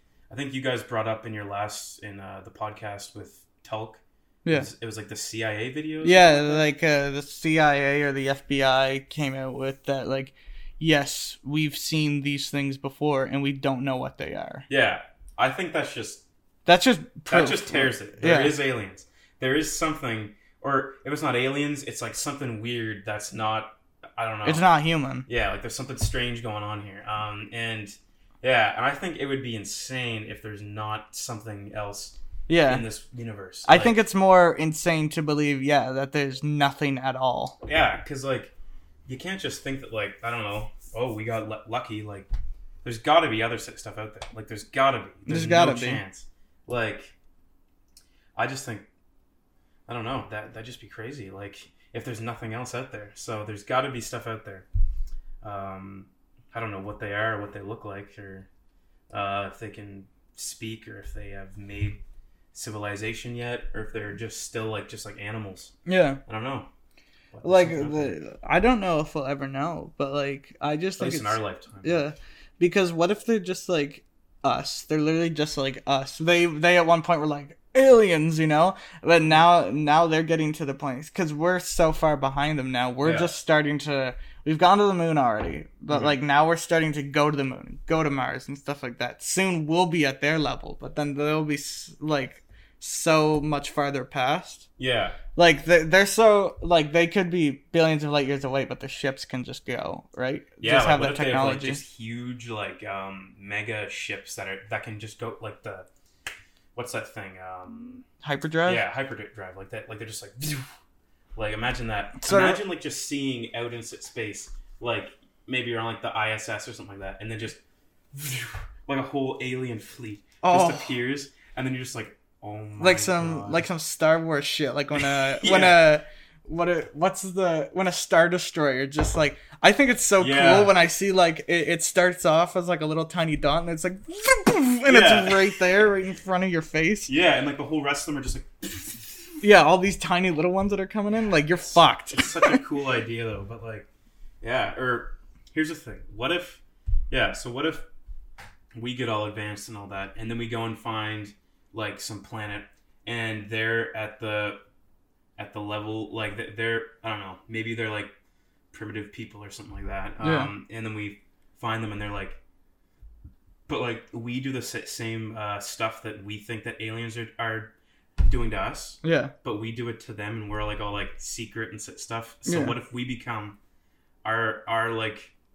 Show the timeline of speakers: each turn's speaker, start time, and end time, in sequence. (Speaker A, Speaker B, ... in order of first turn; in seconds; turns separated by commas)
Speaker A: 0.3-6.7, Speaker B: 6.0-14.7, Speaker A: 14.7-16.2, Speaker B: 16.7-18.6, Speaker A: 17.3-24.7, Speaker B: 24.4-25.3, Speaker A: 25.3-34.1, Speaker B: 32.5-32.9, Speaker B: 33.6-37.6, Speaker A: 37.6-38.5, Speaker A: 39.1-42.3, Speaker A: 42.8-47.1, Speaker B: 45.3-46.0, Speaker A: 48.4-48.9, Speaker A: 49.9-54.7, Speaker A: 55.4-58.5, Speaker A: 59.1-62.0, Speaker A: 62.5-65.8, Speaker B: 65.9-66.2, Speaker A: 66.3-66.7, Speaker A: 67.3-68.2, Speaker B: 67.4-94.7, Speaker A: 71.0-72.0, Speaker A: 83.0-83.4, Speaker A: 85.9-86.2, Speaker A: 94.8-95.2, Speaker B: 95.4-101.8, Speaker A: 100.6-105.9, Speaker A: 106.8-108.0, Speaker B: 108.2-108.8, Speaker A: 108.6-110.6, Speaker A: 111.4-117.6, Speaker B: 112.2-112.7, Speaker A: 118.1-123.7, Speaker B: 120.4-121.0, Speaker B: 122.8-137.1, Speaker A: 125.0-126.0, Speaker A: 130.2-130.8, Speaker A: 134.9-135.6, Speaker A: 137.1-139.3, Speaker B: 139.4-142.6, Speaker A: 141.6-143.9, Speaker A: 144.4-147.9, Speaker A: 148.8-154.6, Speaker A: 155.4-158.1, Speaker A: 158.7-162.4, Speaker B: 160.2-160.5, Speaker A: 163.7-173.6, Speaker B: 169.0-169.3, Speaker B: 172.5-172.8, Speaker A: 174.2-175.3